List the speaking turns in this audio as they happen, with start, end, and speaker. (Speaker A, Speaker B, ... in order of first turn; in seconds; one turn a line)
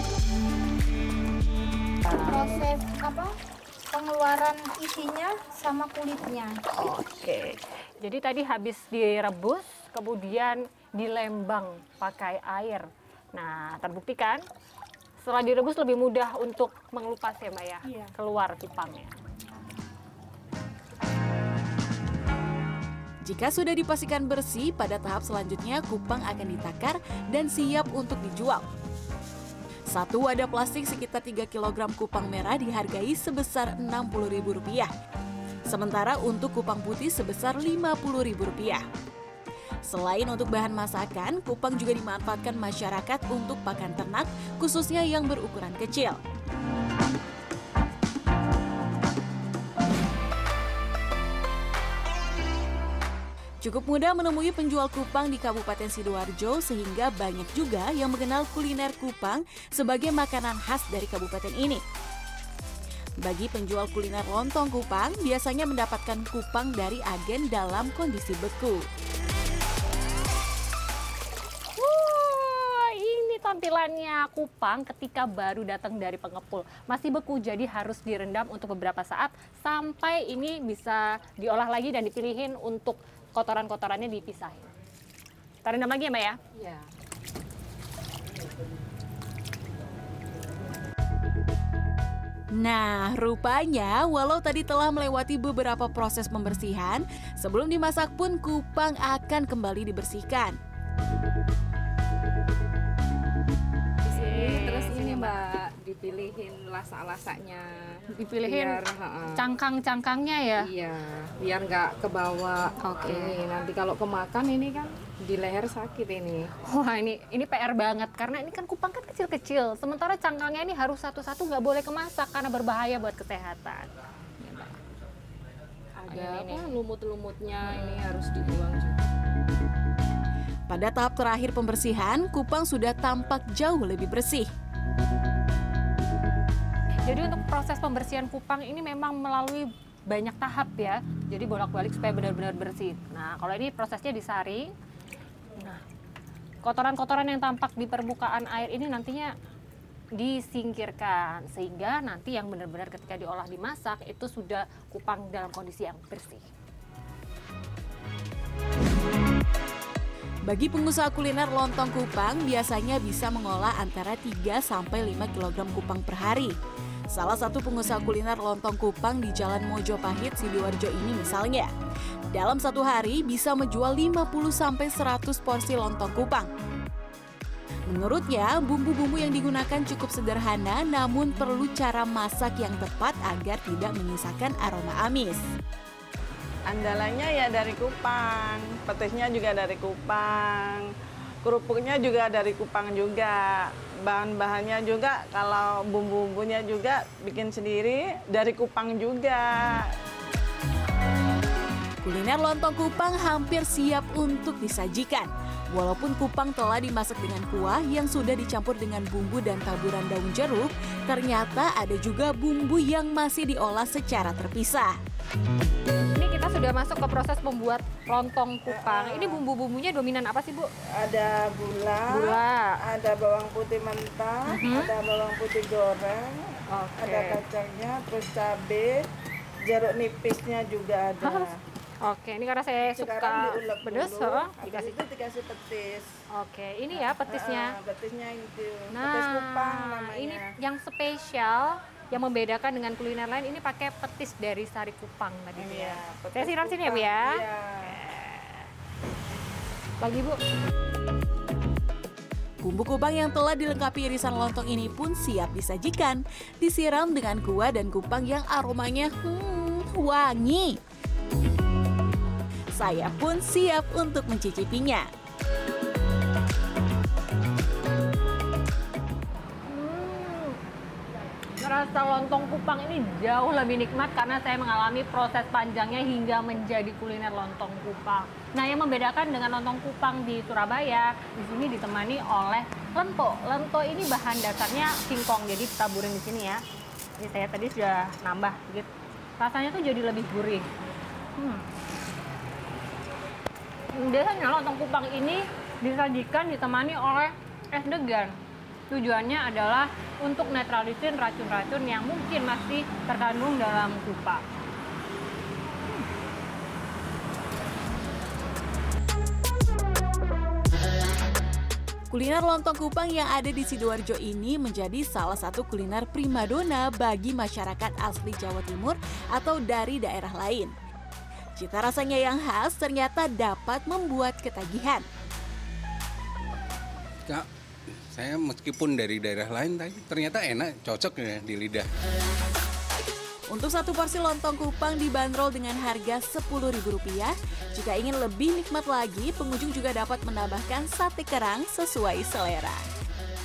Speaker A: 2.3-3.0
Speaker A: 4.3-5.7
Speaker B: 6.8-14.4
Speaker B: 15.2-19.1
Speaker C: 23.2-28.6
Speaker C: 29.9-34.9
Speaker C: 35.7-38.8
Speaker C: 39.9-46.2
Speaker C: 53.6-61.8
Speaker C: 63.2-68.8
Speaker B: 71.8-84.7
Speaker B: 85.6-86.4
Speaker D: 86.5-86.9
Speaker C: 92.6-100.6
Speaker D: 104.0-109.5
Speaker B: 104.1-105.4
Speaker B: 108.2-108.8
Speaker B: 109.3-110.7
Speaker D: 110.6-116.5
Speaker B: 113.0-113.4
Speaker B: 116.6-124.8
Speaker D: 126.0-129.0
Speaker B: 126.1-126.8
Speaker B: 127.7-128.0
Speaker C: 130.7-134.5
Speaker B: 137.1-144.7
Speaker B: 145.6-145.8
Speaker B: 146.6-149.3
Speaker B: 150.2-156.5
Speaker C: 160.5-166.5
Speaker C: 167.1-171.7
Speaker C: 172.3-176.5
Speaker C: 177.9-185.4
Speaker E: 186.7-190.9
Speaker E: 191.4-199.8
Speaker C: 202.0-215.0
Speaker B: 216.1-220.7
Speaker E: 218.7-219.4
Speaker E: 221.0-229.0
Speaker B: 222.1-222.8
Speaker B: 224.5-224.9
Speaker B: 226.7-227.4
Speaker E: 229.7-231.6
Speaker B: 231.2-235.0
Speaker E: 232.9-236.1
Speaker B: 236.3-237.7
Speaker E: 236.9-240.4
Speaker B: 238.9-248.7
Speaker E: 245.6-248.0
Speaker B: 250.0-250.4
Speaker C: 252.6-260.8
Speaker C: 262.7-265.1
Speaker B: 269.7-270.6
Speaker B: 271.6-286.6
Speaker B: 287.2-290.7
Speaker B: 291.4-291.7
Speaker B: 293.9-298.4
Speaker B: 298.9-304.4
Speaker C: 312.1-320.7
Speaker C: 321.6-325.1
Speaker F: 328.1-331.9
Speaker C: 333.5-342.9